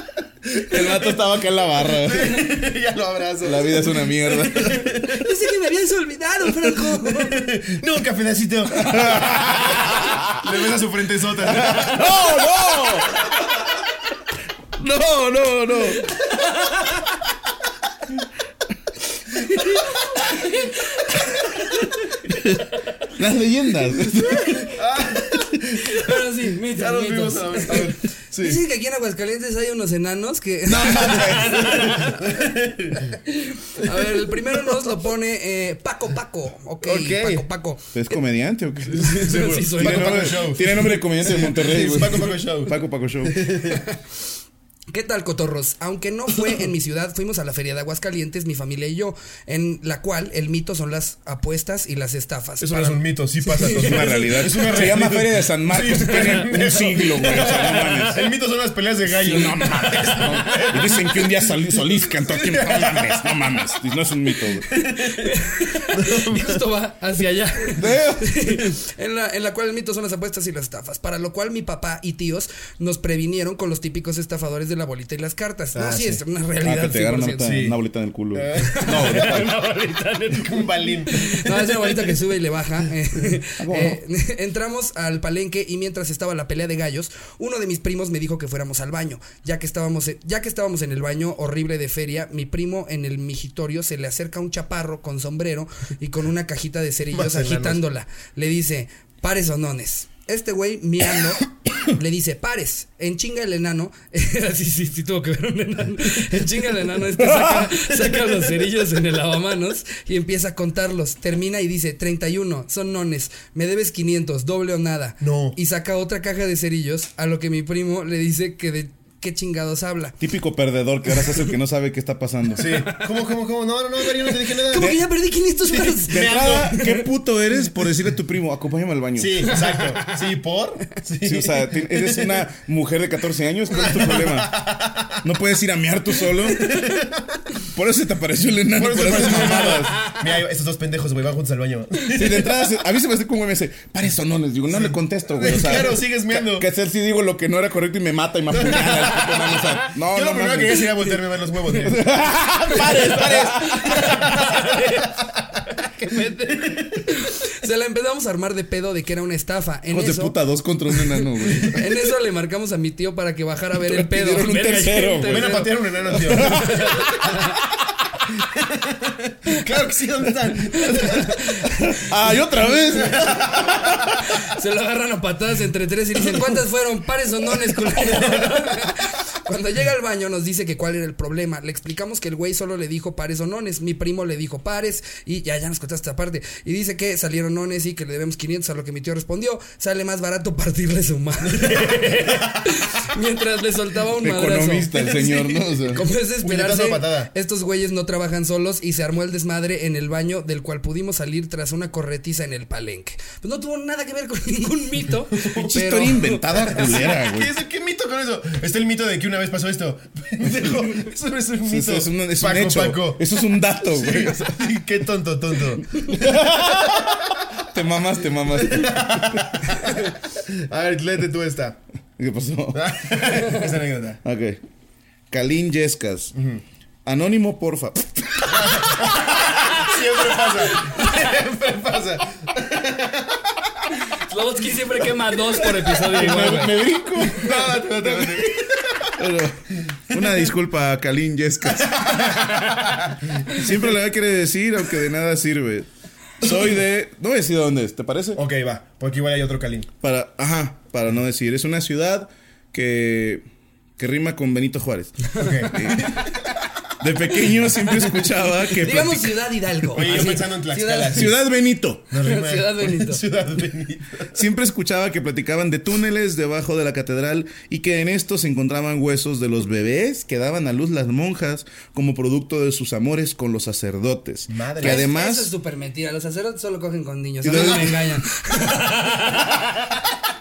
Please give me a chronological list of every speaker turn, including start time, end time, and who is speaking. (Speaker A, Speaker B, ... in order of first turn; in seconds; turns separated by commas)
Speaker A: 0.5-1.2, Speaker B: 0.7-2.5, Speaker A: 1.9-5.3, Speaker B: 3.4-4.9, Speaker C: 5.0-7.5, Speaker A: 6.8-12.4, Speaker B: 8.8-10.4, Speaker B: 11.5-13.4, Speaker B: 14.8-16.1, Speaker C: 19.5-21.6, Speaker B: 22.3-24.7, Speaker A: 24.5-28.6, Speaker C: 25.8-32.4, Speaker B: 30.7-32.0, Speaker A: 31.5-33.2, Speaker C: 33.1-38.0, Speaker A: 33.8-34.9, Speaker A: 36.8-37.5, Speaker B: 37.9-43.5, Speaker A: 38.9-43.8, Speaker C: 39.0-40.8, Speaker C: 43.7-44.0, Speaker C: 44.9-54.4, Speaker A: 52.6-63.5, Speaker B: 53.7-58.3, Speaker C: 57.6-58.0, Speaker B: 59.1-64.7, Speaker C: 60.0-60.7, Speaker A: 64.6-66.6, Speaker C: 65.1-77.5, Speaker B: 67.7-68.6, Speaker A: 75.8-76.2, Speaker B: 76.6-79.5, Speaker A: 77.4-77.8, Speaker A: 78.3-79.5, Speaker C: 78.6-120.2, Speaker A: 80.3-82.1, Speaker B: 83.6-84.0, Speaker A: 97.1-97.8, Speaker B: 107.2-107.7, Speaker A: 115.2-115.6, Speaker B: 120.2-122.9, Speaker A: 122.6-125.0, Speaker C: 124.5-127.0, Speaker B: 124.7-125.0, Speaker A: 125.7-126.8, Speaker B: 126.1-129.6, Speaker A: 129.2-132.4, Speaker C: 129.7-130.1, Speaker B: 131.2-134.6, Speaker A: 133.7-135.2, Speaker B: 135.2-136.8, Speaker A: 136.4-137.4, Speaker B: 137.7-140.1, Speaker A: 138.8-142.5, Speaker B: 142.1-150.9, Speaker A: 144.7-146.7, Speaker A: 148.5-152.2, Speaker B: 151.8-154.3, Speaker C: 152.7-160.4, Speaker A: 152.8-154.8, Speaker B: 159.9-161.8, Speaker C: 161.0-165.7, Speaker B: 163.8-167.1, Speaker A: 165.2-167.3, Speaker C: 166.3-167.6, Speaker A: 168.4-171.5, Speaker C: 170.8-171.9, Speaker B: 171.7-174.2, Speaker A: 172.8-173.8, Speaker C: 174.2-206.8, Speaker A: 191.6-192.6, Speaker B: 194.2-196.0, Speaker A: 196.4-197.3, Speaker A: 205.3-213.2, Speaker B: 205.6-207.5, Speaker B: 211.7-214.5, Speaker A: 213.8-217.5, Speaker B: 216.0-219.6, Speaker A: 218.6-221.8, Speaker B: 222.2-222.9, Speaker A: 222.7-224.2, Speaker B: 224.2-224.6, Speaker B: 225.3-226.3, Speaker A: 226.3-226.6, Speaker B: 227.1-229.1, Speaker A: 228.5-233.8, Speaker C: 230.9-231.1, Speaker C: 234.1-236.8, Speaker B: 235.9-238.5, Speaker A: 236.7-239.2, Speaker B: 239.2-242.7, Speaker A: 241.8-243.7, Speaker B: 243.5-245.9, Speaker B: 246.4-248.4, Speaker A: 248.4-249.9, Speaker B: 250.0-253.4, Speaker B: 254.0-256.3, Speaker A: 255.4-256.4, Speaker B: 257.0-259.4, Speaker C: 258.7-261.3, Speaker A: 259.9-261.4, Speaker B: 261.1-262.1, Speaker A: 262.1-264.4, Speaker C: 262.2-263.2, Speaker B: 264.3-275.5, Speaker A: 274.5-275.1, Speaker C: 274.8-279.8, Speaker B: 277.4-278.2